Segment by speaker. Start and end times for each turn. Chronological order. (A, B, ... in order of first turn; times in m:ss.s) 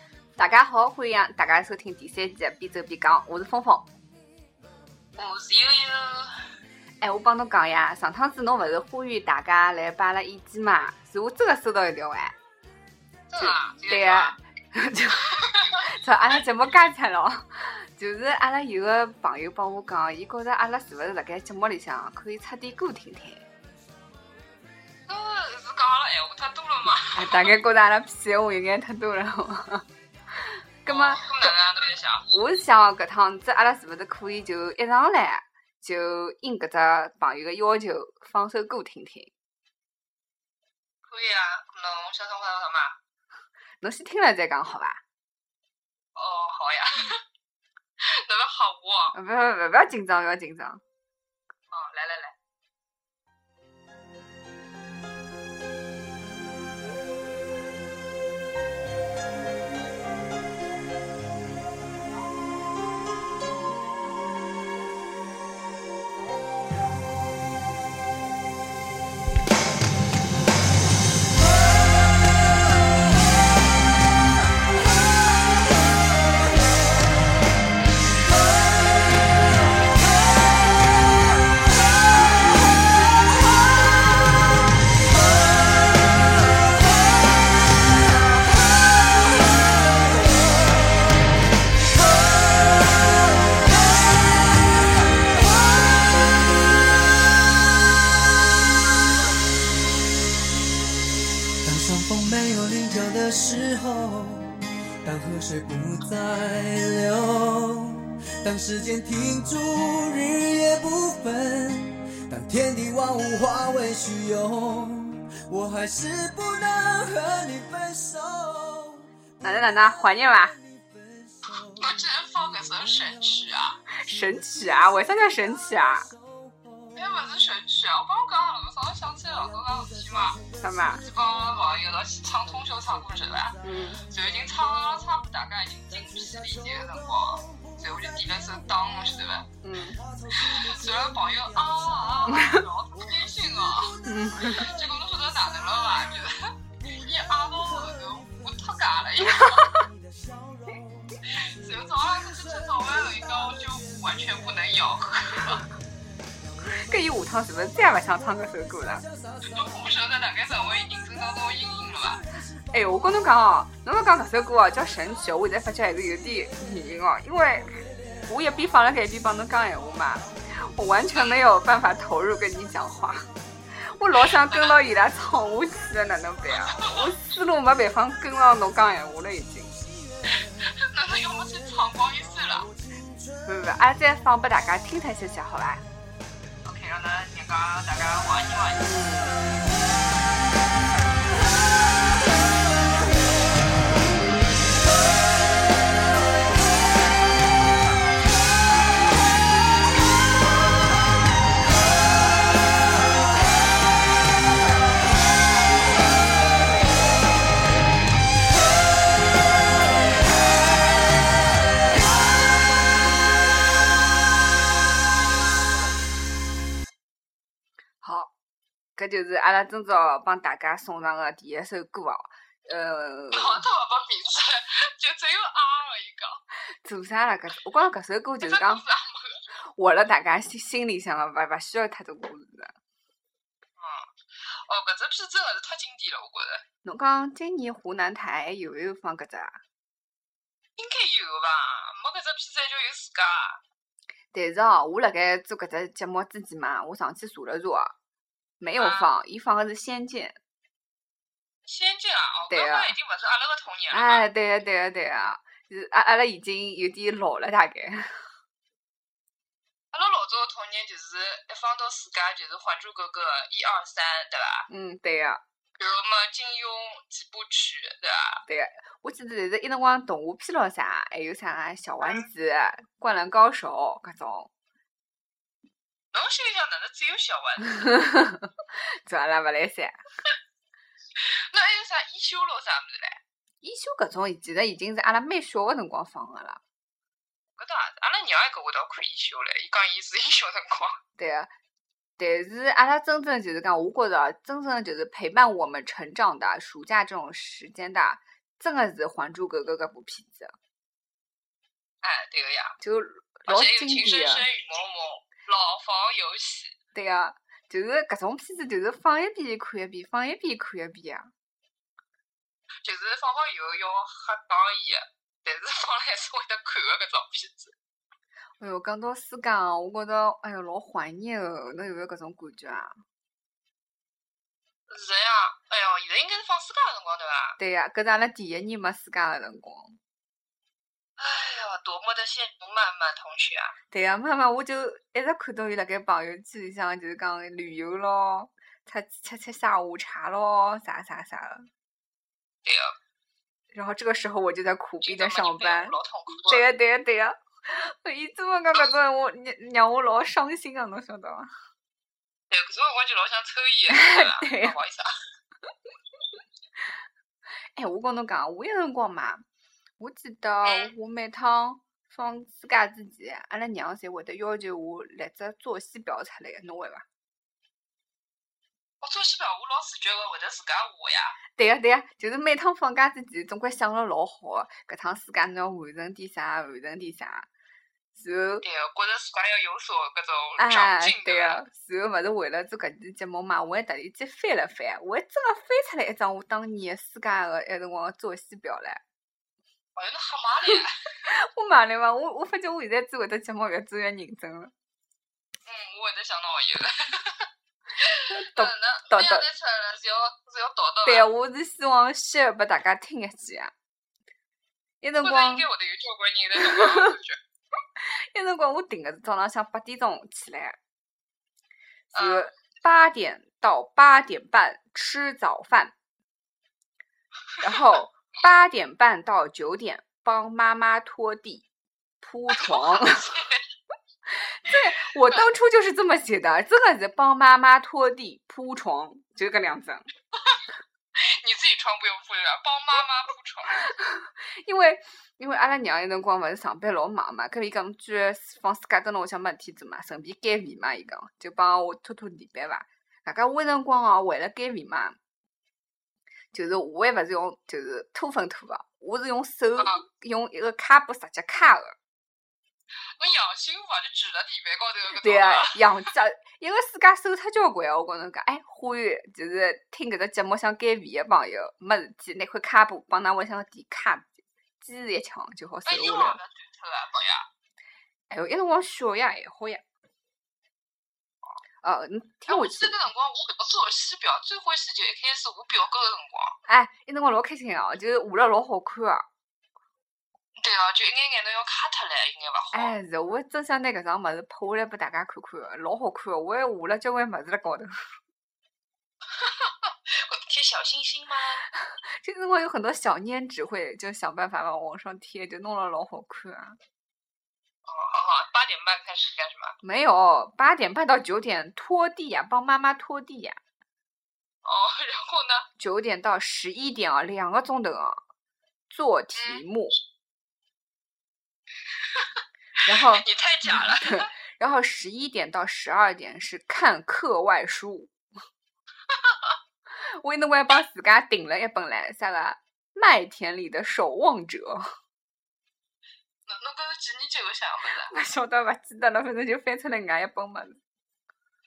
0:00.4-0:03.9 A
0:05.1-0:06.4 B
0:07.0-0:12.3 A
0:13.3-0:14.4 B
0:13.4-0:23.5 A
0:15.3-0:15.8 B
0:25.1-0:27.6 B
0:27.1-0:29.9 A
0:30.4-0:31.5 A
0:30.9-0:32.3 B
0:32.3-0:39.3 A
0:41.0-0:43.0 B
0:43.8-0:45.0 A
0:46.2-0:47.2 B
0:48.0-0:49.1 B
0:49.1-0:50.8 A
0:51.7-0:52.4 B
1:41.6-1:59.1 C
1:59.4-2:00.6 A
2:00.8-2:01.9 C
2:01.6-2:03.8 B
2:04.0-2:06.1 A
2:06.3-2:06.7 C
2:06.9-2:10.4 B
2:09.6-2:10.9 C
2:10.6-2:11.0 A
2:11.0-2:19.5 B
2:13.6-2:14.0 A
2:16.0-2:16.9 C
2:19.6-2:20.0 A
2:20.1-2:21.7 C
2:20.3-2:29.7 B
2:22.3-2:22.7 A
2:23.2-2:24.0 C
2:24.0-2:24.7 A
2:27.6-2:28.3 C
2:29.3-2:29.9 A
2:29.9-2:33.8 C
2:31.3-2:35.7 B
2:36.7-2:39.0 A
2:39.2-2:39.7 C
2:39.4-2:42.2 B
2:42.7-2:53.3 A
2:51.1-2:51.4 B
2:53.8-2:59.8 A
2:54.1-2:54.9 B
2:56.6-2:57.1 B
3:00.3-3:02.7 B
3:03.4-3:05.8 A
3:06.6-3:08.9 B
3:08.8-3:09.3 A
3:38.0-3:38.3 A
3:39.0-3:43.6 A
3:43.3-3:46.4 B
3:46.8-3:48.8 A
3:48.4-3:49.4 B
3:49.8-3:52.7 A
3:53.8-3:56.6 B
3:56.8-3:59.6 A
4:00.8-4:03.6 B
4:04.3-4:07.9 A
4:08.6-4:10.4 A
4:08.8-4:09.1 B
4:11.7-4:14.3 B
4:12.5-4:13.0 A
4:13.9-4:18.2 A
4:19.9-4:24.7 B
4:24.7-4:25.4 A
4:25.8-4:28.4 B
4:28.5-4:34.5 A
4:32.0-4:32.3 B
4:36.1-4:37.7 B
4:37.7-4:38.5 A
4:39.1-4:40.0 A
4:41.2-4:43.2 B
4:43.6-4:46.6 A
4:47.6-4:51.0 B
4:51.2-4:51.5 A
4:52.2-5:00.5 A
5:02.0-5:02.8 B
5:02.8-5:04.5 A
5:03.5-5:06.8 B
5:06.9-5:11.3 A
5:12.8-5:17.8 B
5:18.6-5:22.9 A
5:24.9-5:27.6 B
5:27.6-5:30.0 A
5:31.2-5:33.8 B
5:33.9-5:41.7 A
5:42.6-5:43.0 B
5:43.7-5:46.0 A
5:45.0-5:46.6 B
5:46.5-5:51.5 A
5:52.5-5:55.1 B
5:53.9-5:54.8 A
5:57.8-5:59.4 A
6:00.0-6:07.0 A
6:00.6-6:00.9 B
6:09.0-6:11.4 B
6:11.6-6:17.5 A
6:18.2-6:18.6 A
6:18.6-6:21.6 B
6:20.6-6:29.0 A
6:30.0-6:31.0 B
6:30.7-6:34.7 A
6:35.7-6:41.3 B
6:38.3-6:39.5 A
6:41.0-6:43.7 A
6:45.0-6:45.7 A
6:45.2-6:47.4 B
6:46.6-6:47.2 A
6:48.0-6:50.8 A
6:52.1-6:56.0 A
6:52.1-6:52.5 B
6:57.6-7:01.7 A
7:02.2-7:03.3 A
7:02.5-7:03.6 B
7:04.3-7:10.1 A
7:10.4-7:10.6 B
7:11.2-7:13.9 B
7:13.8-7:25.2 A
7:26.5-7:32.0 A
7:29.8-7:30.0 B
7:33.2-7:35.8 B
7:35.2-7:46.4 A
7:45.9-7:47.5 B
7:48.3-7:49.8 A
7:51.8-7:53.0 A
7:52.5-7:56.6 B
7:56.7-7:59.2 A
8:00.6-8:03.0 B
8:02.7-8:07.9 A
8:09.3-8:11.6 B
8:11.8-8:16.8 A
8:17.8-8:19.8 B
8:19.8-8:23.6 A
8:24.6-8:25.7 B
8:25.8-8:28.2 A
8:28.9-8:30.0 A
8:29.4-8:29.6 B
8:32.0-8:34.3 B
8:32.8-8:38.1 A
8:39.1-8:39.6 B
8:40.2-8:44.8 A
8:46.5-8:48.1 B
8:48.1-8:50.8 A